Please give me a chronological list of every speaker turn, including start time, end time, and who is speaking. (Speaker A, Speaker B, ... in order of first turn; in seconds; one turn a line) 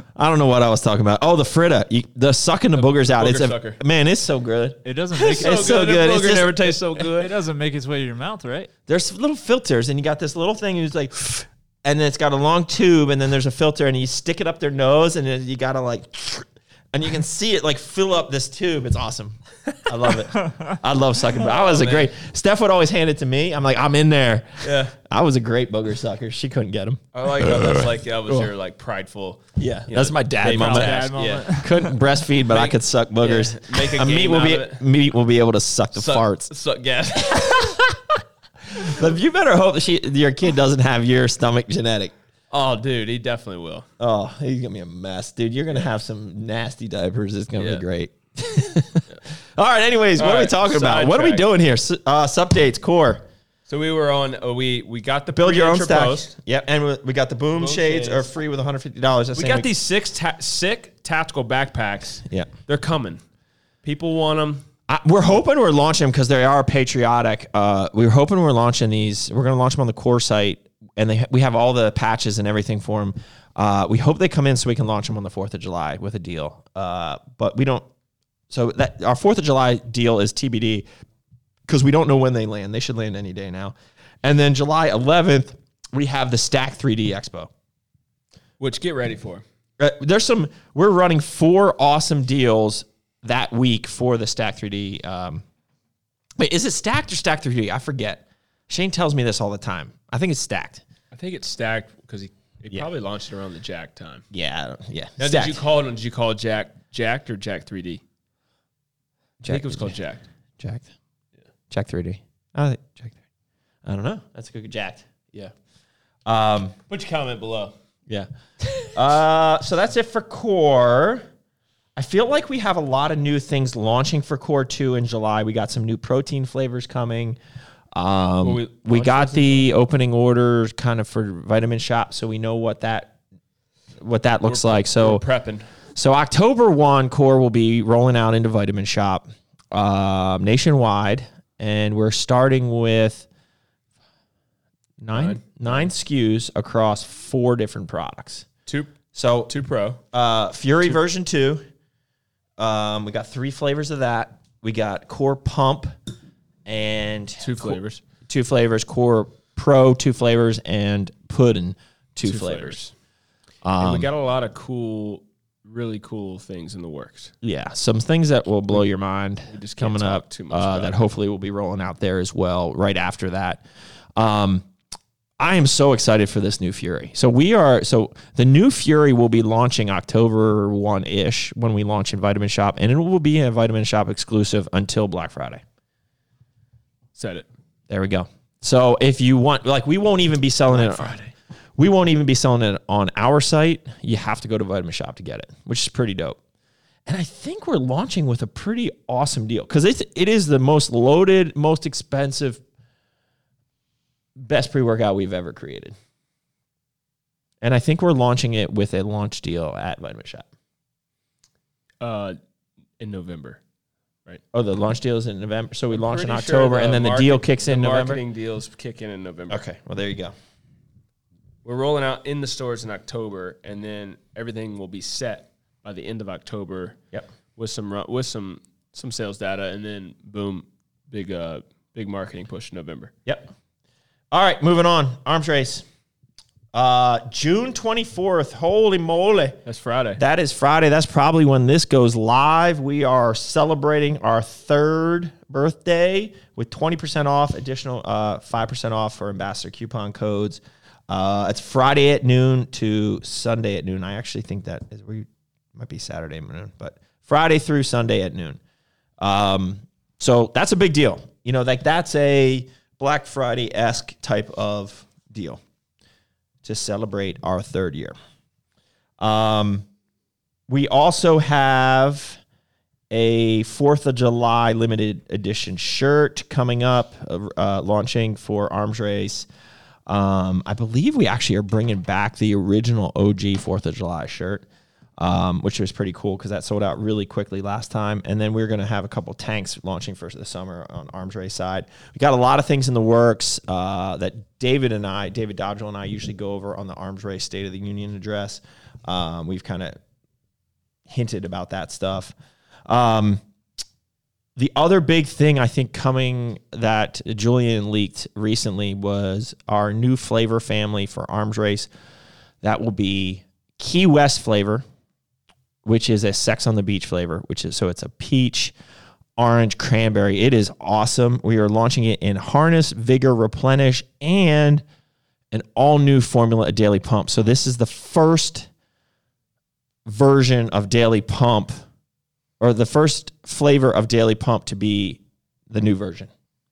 Speaker A: 0.1-4.8
Speaker B: 2.8-3.8
Speaker C: 4.8-5.9
Speaker B: 5.1-7.3
Speaker A: 5.4-6.8
Speaker C: 6.9-8.7
Speaker A: 8.9-28.5
Speaker B: 21.3-22.1
Speaker B: 24.6-24.9
Speaker B: 27.1-31.5
Speaker A: 29.6-36.5
Speaker C: 30.4-32.0
Speaker B: 32.5-34.8
Speaker B: 36.0-37.9
Speaker A: 38.8-42.1
Speaker B: 42.5-43.9
Speaker A: 44.0-53.2
Speaker B: 47.6-47.8
Speaker B: 50.2-51.5
Speaker B: 53.7-56.3
Speaker A: 55.3-59.7
Speaker B: 57.5-58.3
Speaker B: 59.4-63.2
Speaker B: 63.8-64.6
Speaker A: 64.9-77.9
Speaker A: 78.5-80.9
Speaker A: 81.7-87.5
Speaker B: 88.6-89.4
Speaker A: 89.8-95.4
Speaker A: 96.4-100.8
Speaker B: 101.1-104.2
Speaker A: 104.3-105.6
Speaker B: 105.2-108.0
Speaker A: 109.4-110.0
Speaker B: 109.5-110.2
Speaker A: 110.6-110.9
Speaker A: 111.7-113.2
Speaker A: 113.8-115.1
Speaker A: 116.3-116.8
Speaker B: 116.9-117.7
Speaker A: 118.8-121.3
Speaker A: 122.0-127.4
Speaker A: 127.9-133.2
Speaker B: 128.4-129.7
Speaker A: 134.0-135.2
Speaker B: 134.5-135.7
Speaker A: 136.0-143.3
Speaker A: 145.0-148.5
Speaker B: 145.1-145.9
Speaker B: 148.7-148.9
Speaker A: 149.1-149.5
Speaker B: 149.5-150.0
Speaker A: 150.1-151.6
Speaker A: 152.6-155.9
Speaker A: 156.7-162.8
Speaker B: 157.4-158.0
Speaker B: 162.2-162.9
Speaker A: 163.6-164.1
Speaker B: 163.8-167.3
Speaker A: 167.4-173.6
Speaker B: 169.5-171.1
Speaker A: 174.2-174.7
Speaker A: 175.4-185.6
Speaker B: 187.2-187.5
Speaker A: 187.9-191.2
Speaker B: 190.7-191.3
Speaker A: 191.8-196.4
Speaker A: 197.1-202.6
Speaker A: 204.4-205.9
Speaker A: 207.6-210.5
Speaker B: 212.0-212.4
Speaker B: 213.0-213.6
Speaker A: 214.5-218.2
Speaker B: 215.9-219.6
Speaker A: 219.5-220.3
Speaker B: 221.7-227.0
Speaker B: 227.6-233.1
Speaker A: 233.3-233.5
Speaker A: 234.3-235.8
Speaker A: 236.7-239.6
Speaker B: 239.7-240.2
Speaker A: 240.2-258.6
Speaker A: 259.2-265.6
Speaker A: 266.6-268.1
Speaker A: 269.2-269.9
Speaker A: 270.7-272.4
Speaker A: 273.1-279.5
Speaker A: 280.1-284.6
Speaker A: 285.2-300.0
Speaker A: 301.1-302.3
Speaker A: 302.9-303.4
Speaker A: 304.6-311.9
Speaker A: 312.6-314.8
Speaker A: 315.9-318.7
Speaker A: 319.4-324.8
Speaker A: 325.5-328.7
Speaker A: 330.1-331.8
Speaker A: 332.6-336.3